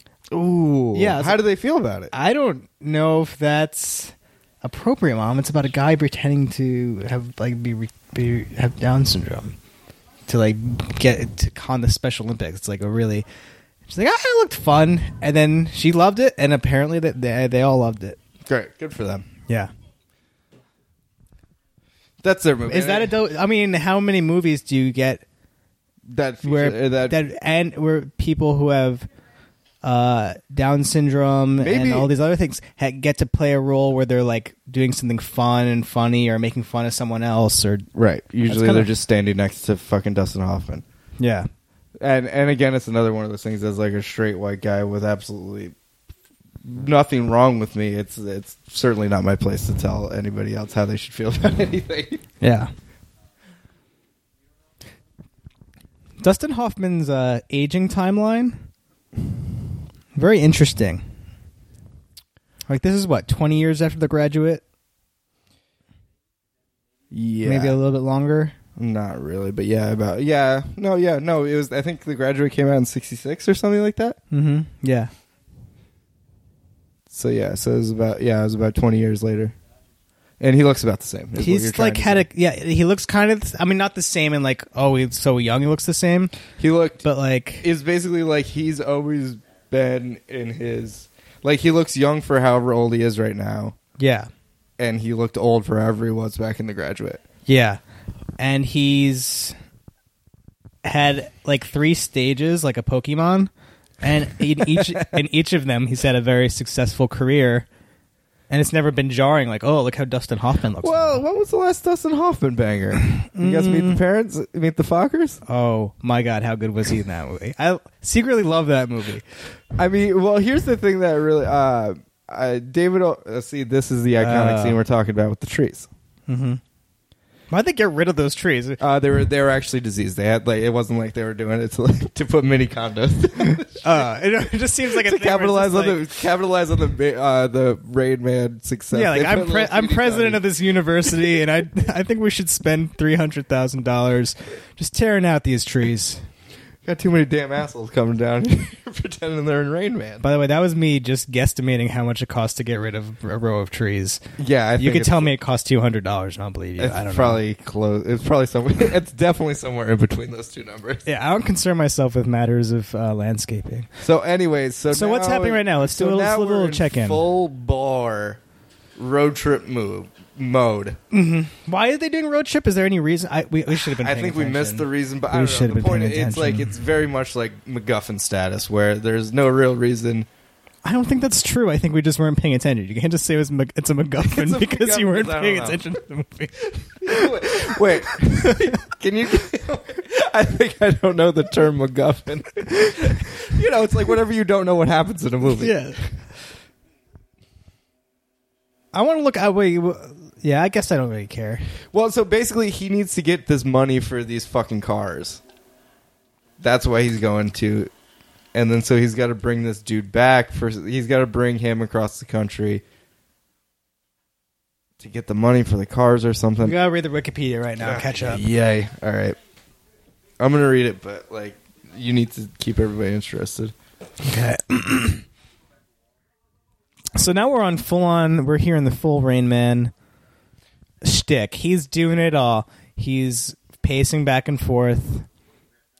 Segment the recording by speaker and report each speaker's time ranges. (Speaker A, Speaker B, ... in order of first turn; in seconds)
Speaker A: 0.3-2.1, 18.4-19.2, 22.2-23.1, 26.1-27.2, 31.6-32.1, 37.9-40.8, 42.0-45.7, 46.6-52.2, 67.1-67.8, 68.8-74.2, 77.1-79.5, 80.4-82.2, 86.6-87.0, 87.6-93.8, 94.8-97.2, 104.7-105.1, 110.8-115.4, 119.8-125.9, 128.8-134.1, 134.8-140.4, 146.8-150.2, 154.4-155.3, 156.8-161.1, 164.0-168.4, 169.0-171.0, 173.9-180.3, 184.2-185.8, 187.0-195.8, 201.9-205.4, 206.6-207.9, 208.5-212.8, 215.0-216.7, 217.8-219.3, 220.4-223.7
Speaker B: 0.9-1.4, 2.1-9.6, 10.3-13.2, 13.9-18.2, 22.7-25.2, 26.4-29.1, 29.8-37.9, 38.5-38.9, 41.2-41.5, 52.4-52.7, 56.2-58.6, 60.1-61.0, 62.7-64.6, 67.4-68.5, 74.3-75.1, 81.4-86.3, 87.0-87.7, 94.0-94.3, 97.5-97.8, 98.4-99.5, 100.8-107.7, 108.5-111.2, 113.2-114.0, 115.5-119.2, 124.2-124.8, 126.3-126.6, 127.5-128.8, 133.8-136.0, 138.9-146.2, 150.2-154.2, 154.8-157.4, 161.0-163.9, 164.9-167.2, 171.1-176.8, 180.8-188.8, 195.5-196.0, 198.9-201.7, 216.6-218.4, 224.2-225.2, 227.1-229.9, 231.0-235.3